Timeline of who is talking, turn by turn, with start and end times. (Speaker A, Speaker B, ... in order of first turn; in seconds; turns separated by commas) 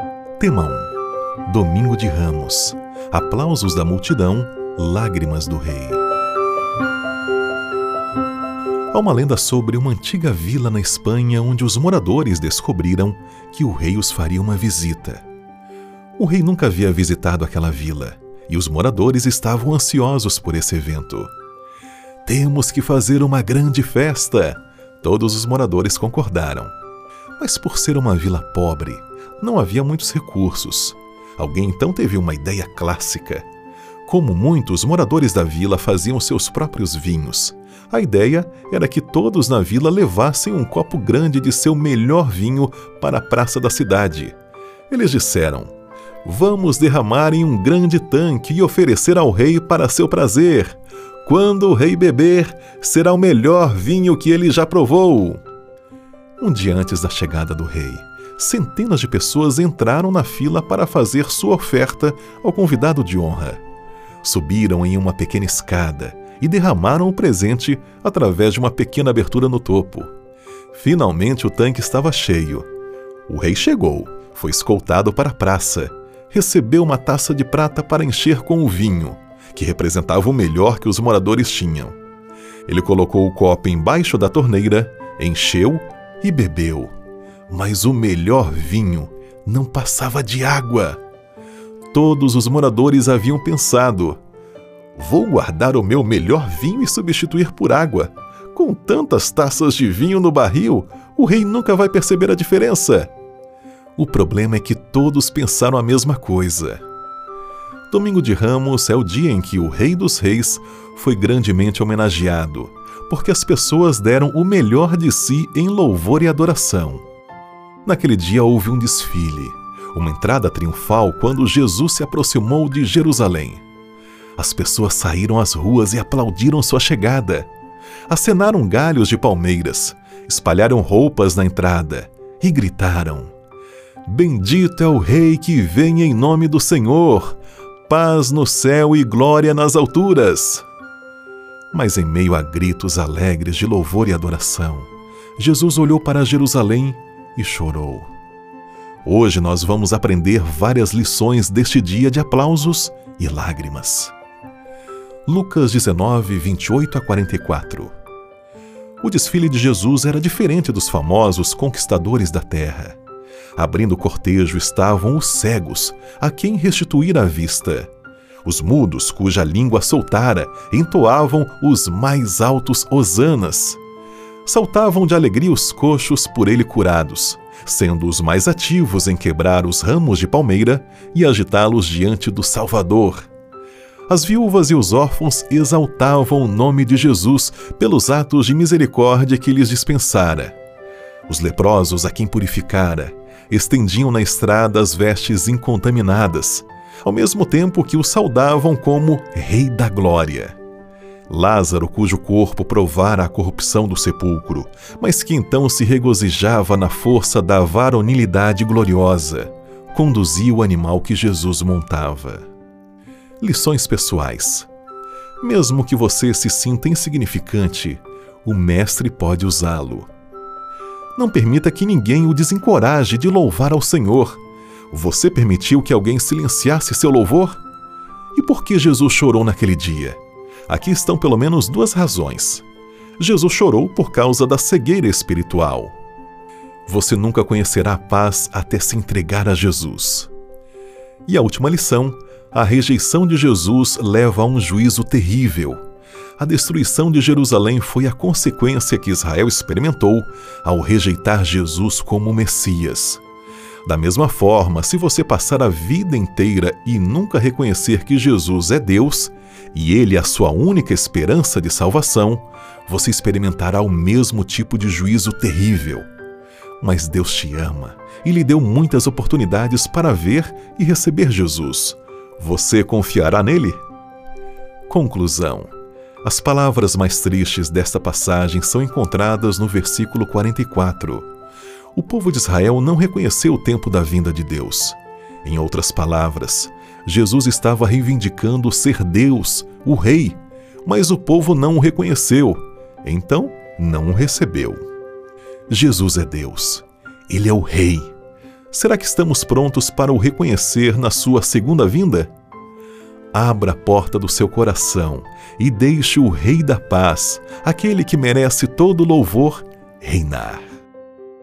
Speaker A: 0.4-0.9, Speaker A: 1.4-6.0, Speaker A: 8.9-15.2, Speaker A: 16.2-21.3, Speaker A: 22.2-26.7, Speaker A: 27.4-33.5, Speaker A: 34.1-44.4, Speaker A: 44.9-45.7, Speaker A: 46.2-55.4, Speaker A: 56.4-63.6, Speaker A: 64.2-70.1, Speaker A: 70.7-72.7, Speaker A: 73.3-82.0, Speaker A: 82.7-86.9, Speaker A: 87.5-91.0, Speaker A: 91.9-94.2, Speaker A: 95.0-103.1, Speaker A: 104.0-106.8, Speaker A: 107.9-117.0, Speaker A: 117.8-123.7, Speaker A: 124.4-127.5, Speaker A: 128.1-133.3, Speaker A: 134.1-140.7, Speaker A: 141.7-148.1, Speaker A: 149.1-154.1, Speaker A: 155.3-157.9, Speaker A: 159.0-163.0, Speaker A: 163.6-167.9, Speaker A: 168.4-173.8, Speaker A: 174.4-183.3, Speaker A: 184.1-190.6, Speaker A: 191.3-200.6, Speaker A: 201.3-212.5, Speaker A: 213.4-214.7, Speaker A: 215.4-220.1, Speaker A: 221.2-227.6, Speaker A: 228.3-232.7, Speaker A: 233.2-235.9, Speaker A: 236.9-240.3, Speaker A: 241.3-245.8, Speaker A: 246.4-253.2, Speaker A: 253.8-266.1, Speaker A: 266.8-273.8, Speaker A: 274.9-275.7, Speaker A: 276.2-281.3, Speaker A: 281.9-294.9, Speaker A: 295.7-298.1, Speaker A: 298.7-302.3, Speaker A: 303.3-310.6